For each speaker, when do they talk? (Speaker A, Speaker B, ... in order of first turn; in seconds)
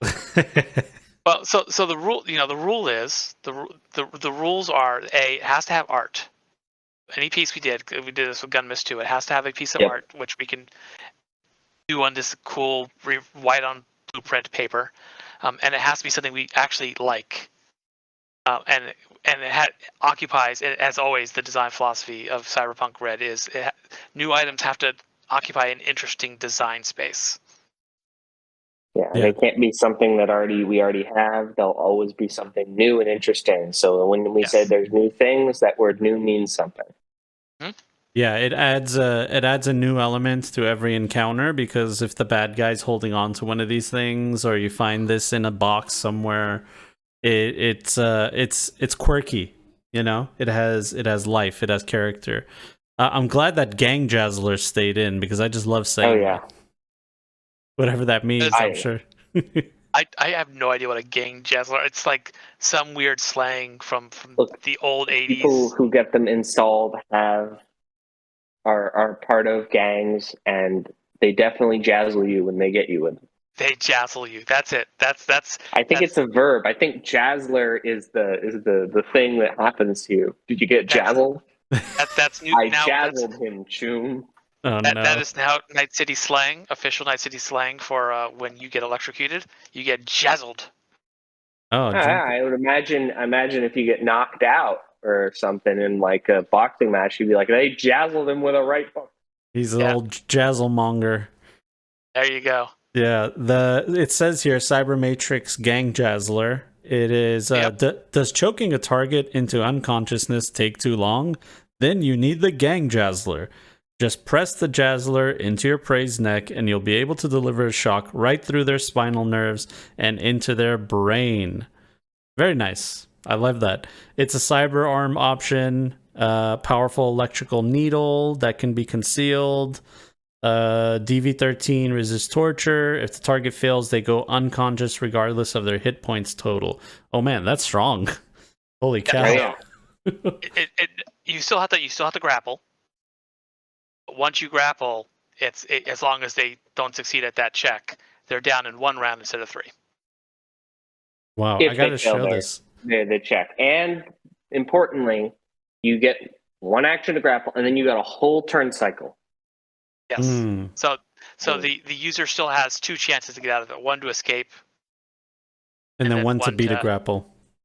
Speaker A: 0.3-0.8, 38.1-46.6, 47.2-52.5, 53.0-56.4, 57.8-59.7, 84.6-85.2, 91.7-92.3, 99.5-101.3, 102.9-121.7, 122.4-129.8, 130.4-138.1, 138.8-139.5, 140.1-140.4, 151.4-152.6, 160.2-160.7, 166.0-167.3
Speaker B: 1.2-6.3, 7.1-10.7, 11.9-17.5, 18.4-27.4, 34.4-34.7, 59.9-65.7, 73.6-76.1, 80.9-81.2, 82.0-83.3, 84.8-90.7, 102.1-102.7, 139.1-139.5, 140.4-142.6, 144.1-149.7, 160.1-164.5, 166.0-166.9
Speaker C: 28.9-36.9, 56.0-56.4, 58.5-58.9, 65.2-67.6, 68.6-73.2, 75.7-81.4, 82.5-84.2, 91.9-99.1, 139.2-139.6, 151.6-159.2